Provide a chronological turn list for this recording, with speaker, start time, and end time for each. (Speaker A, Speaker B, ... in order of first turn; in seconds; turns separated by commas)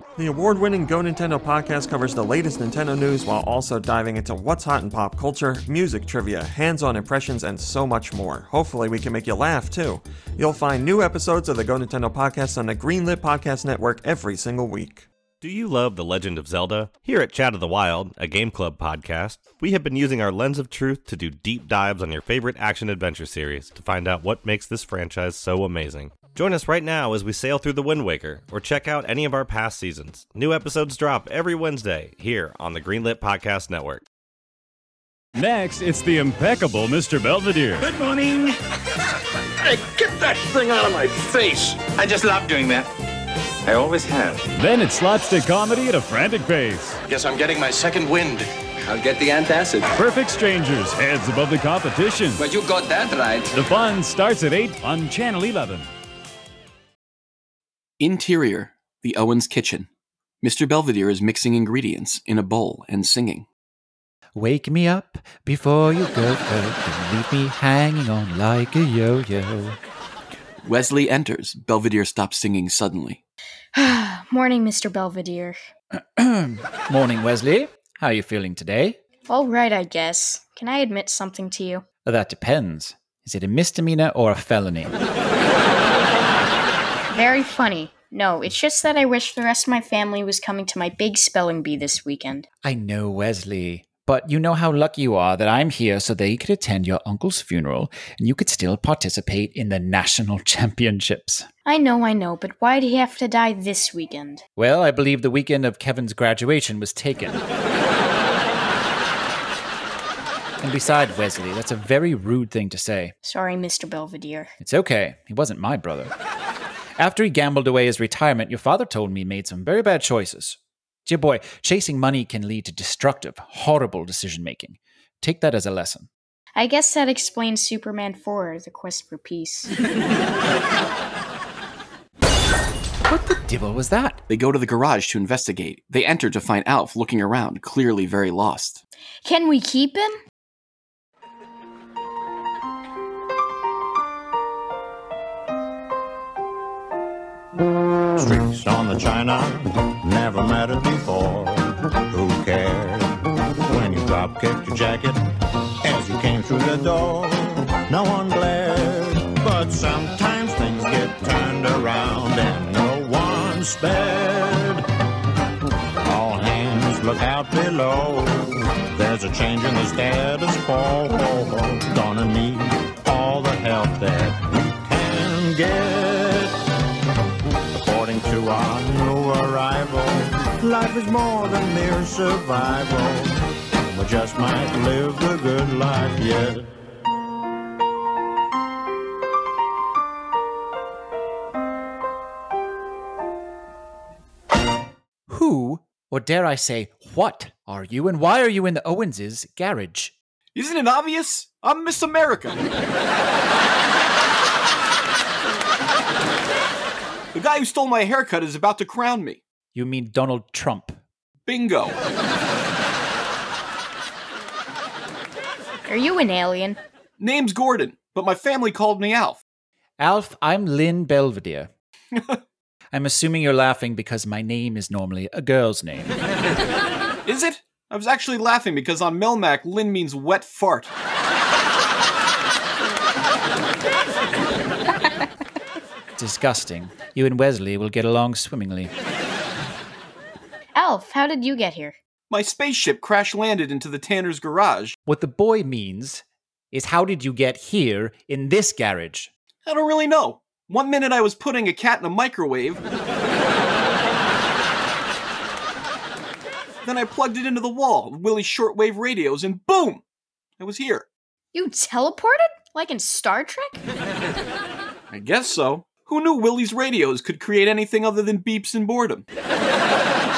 Speaker A: 0.2-15.1, Speaker B: 15.4-34.0, Speaker C: 35.3-37.9, Speaker D: 40.1-42.8, Speaker C: 44.5-47.0, Speaker D: 47.0-49.9, Speaker C: 49.9-52.4, Speaker D: 52.4-53.5, Speaker C: 53.5-55.9, Speaker E: 58.0-59.9, Speaker E: 60.4-63.5, Speaker F: 64.3-69.8, Speaker E: 70.6-73.2, Speaker G: 73.7-75.6, Speaker F: 76.0-79.0, Speaker G: 79.3-81.8, Speaker F: 82.0-84.9, Speaker G: 87.1-92.5, Speaker F: 92.6-101.5, Speaker G: 101.7-104.4, Speaker F: 104.5-107.4, Speaker F: 110.6-113.1, Speaker G: 113.2-114.5, Speaker F: 114.6-116.1, Speaker F: 117.0-126.1, Speaker G: 126.5-129.7, Speaker F: 133.1-134.2, Speaker E: 134.3-138.8, Speaker G: 139.2-140.2, Speaker H: 148.2-164.8, Speaker H: 166.0-176.5, Speaker H: 177.7-186.7, Speaker F: 195.3-200.1, Speaker E: 200.5-202.6, Speaker E: 207.3-209.4, Speaker F: 209.7-211.0, Speaker E: 211.4-212.0, Speaker G: 215.9-216.8, Speaker E: 217.2-219.4, Speaker F: 220.0-221.7, Speaker F: 222.9-226.1, Speaker E: 227.2-230.9, Speaker F: 236.2-238.9, Speaker G: 240.8-241.9, Speaker E: 242.3-244.9, Speaker F: 245.1-249.3, Speaker E: 249.7-252.8, Speaker E: 256.8-260.0, Speaker E: 260.6-261.1, Speaker G: 261.5-263.8, Speaker E: 265.1-269.2